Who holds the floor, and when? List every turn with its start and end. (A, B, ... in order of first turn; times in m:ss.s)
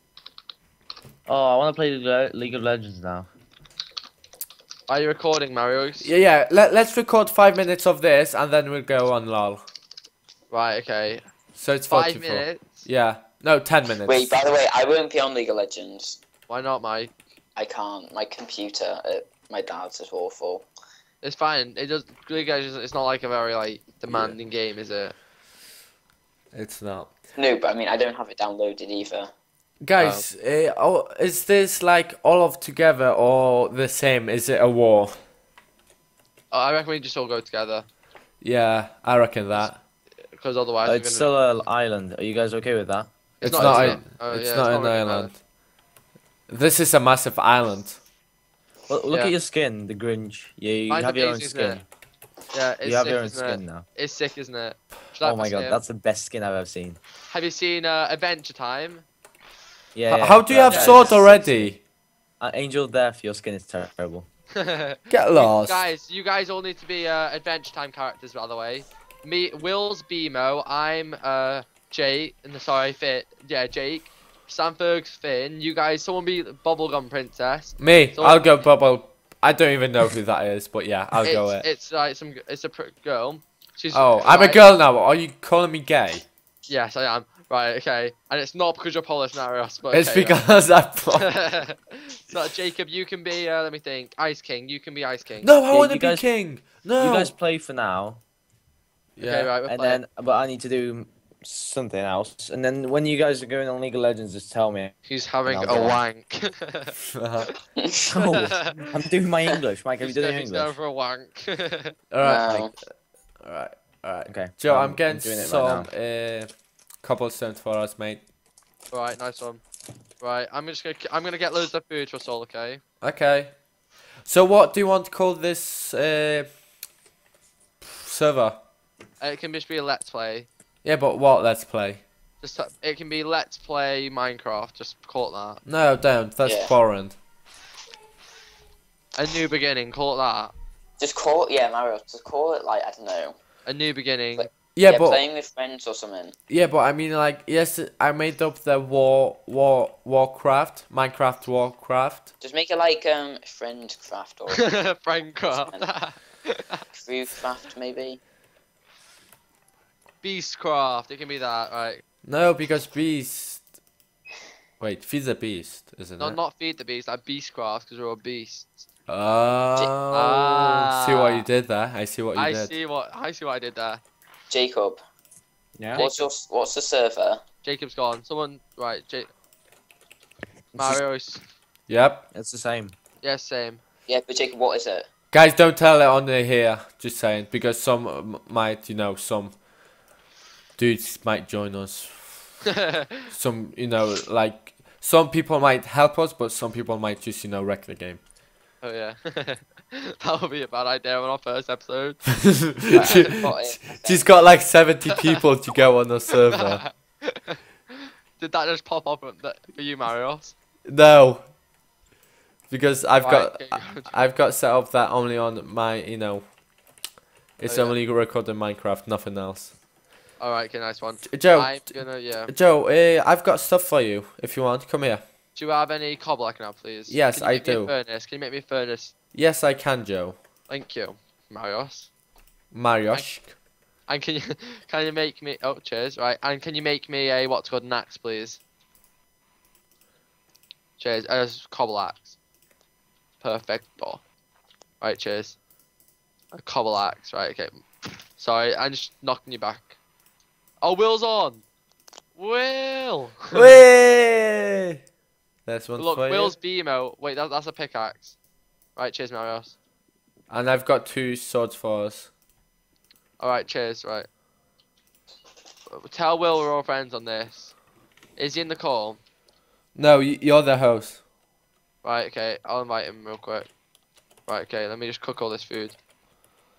0:01.3-0:03.3 A
0:04.9-0:06.1 B
0:06.0-0:09.6 C
0:10.5-0:11.2 B
0:11.6-0:14.4 C
0:11.9-0:12.9 B
0:14.0-0:16.2 D
0:16.5-0:17.1 B
0:17.6-0:20.7 D
0:21.2-0:25.2 B
0:26.5-0:27.1 C
0:27.4-0:29.3 D
0:29.8-0:35.2 C
0:30.0-0:30.2 B
0:36.5-0:37.9 B
0:38.4-0:39.8 C
0:40.3-0:41.3 B
0:40.9-0:44.0 A
0:43.4-0:45.3 B
0:43.4-0:45.4 C
0:46.5-0:48.0 C
0:48.9-0:51.9 A
0:49.1-0:49.3 B
0:50.9-0:51.8 B
0:52.5-0:55.8 B
0:52.8-0:53.9 A
0:55.2-0:57.0 A
0:57.3-0:59.1 B
1:00.0-1:01.8 A
1:00.1-1:01.8 C
1:00.7-1:01.1 B
1:02.4-1:04.3 A
1:04.6-1:18.5 B
1:05.1-1:05.8 C
1:17.8-1:21.7 C
1:21.2-1:24.6 B
1:23.9-1:26.3 C
1:26.7-1:30.4 B
1:29.9-1:31.3 C
1:31.2-1:35.5 B
1:35.4-1:37.4 C
1:35.7-1:36.3 A
1:37.0-1:38.2 A
1:39.2-1:39.5 C
1:39.2-1:40.0 B
1:39.7-1:44.9 A
1:45.1-1:46.9 B
1:45.5-1:46.0 A
1:47.1-1:47.5 C
1:48.1-1:50.7 A
1:48.5-1:48.8 B
1:50.0-1:51.9 B
1:52.1-1:52.7 C
1:52.2-1:52.7 D
1:53.4-1:56.5 C
1:54.3-1:55.9 A
1:57.0-1:58.2 C
1:58.9-1:59.6 B
2:00.2-2:02.8 B
2:03.0-2:03.5 C
2:04.2-2:06.5 C
2:08.0-2:08.6 C
2:09.2-2:10.5 B
2:10.8-2:12.0 C
2:12.4-2:15.6 B
2:15.7-2:17.2 C
2:16.4-2:16.7 D
2:19.2-2:20.5 B
2:21.0-2:23.4 D
2:23.7-2:24.5 B
2:24.4-2:26.4 D
2:24.8-2:25.2 C
2:26.5-2:32.3 C
2:32.4-2:34.7 D
2:34.6-2:36.8 B
2:35.5-2:35.9 D
2:36.9-2:38.2 D
2:40.2-2:42.0 B
2:42.2-2:43.6 C
2:44.8-2:46.4 C
2:46.2-2:48.9 B
2:49.1-2:52.7 C
2:50.1-2:51.4 B
2:52.4-2:54.0 B
2:54.5-2:55.0 D
2:55.8-2:56.0 A
2:56.0-2:56.3 B
2:56.0-2:57.4 D
2:57.6-2:59.3 B
3:00.8-3:01.4 B
3:01.9-3:02.2 C
3:02.3-3:03.0 A
3:03.2-3:03.8 B
3:04.1-3:05.1 D
3:05.3-3:09.6 C
3:10.8-3:12.6 C
3:13.3-3:18.2 C
3:18.8-3:23.2 B
3:22.7-3:26.8 C
3:22.9-3:24.3 D
3:26.5-3:27.6 B
3:28.4-3:30.6 B
3:30.9-3:31.5 C
3:32.7-3:36.5 C
3:33.2-3:34.1 B
3:37.6-3:39.7 C
3:37.7-3:38.0 B
3:40.4-3:42.5 B
3:41.2-3:45.2 C
3:45.6-3:49.1 B
3:47.1-3:47.9 C
3:49.3-3:50.4 C
3:50.7-3:52.1 B
3:52.7-3:53.5 C
3:54.1-3:58.6 B
4:01.0-4:02.4 B
4:03.4-4:04.2 B
4:05.0-4:05.6 B
4:06.5-4:07.8 B
4:08.4-4:10.0 B
4:10.8-4:11.6 B
4:12.4-4:13.7 B
4:13.5-4:15.0 C
4:15.7-4:16.5 C
4:16.0-4:18.4 B
4:19.0-4:19.8 B
4:20.5-4:22.3 C
4:23.4-4:24.3 B
4:25.9-4:27.8 B
4:28.4-4:29.2 B
4:30.0-4:31.2 C
4:32.0-4:33.7 B
4:34.5-4:36.0 B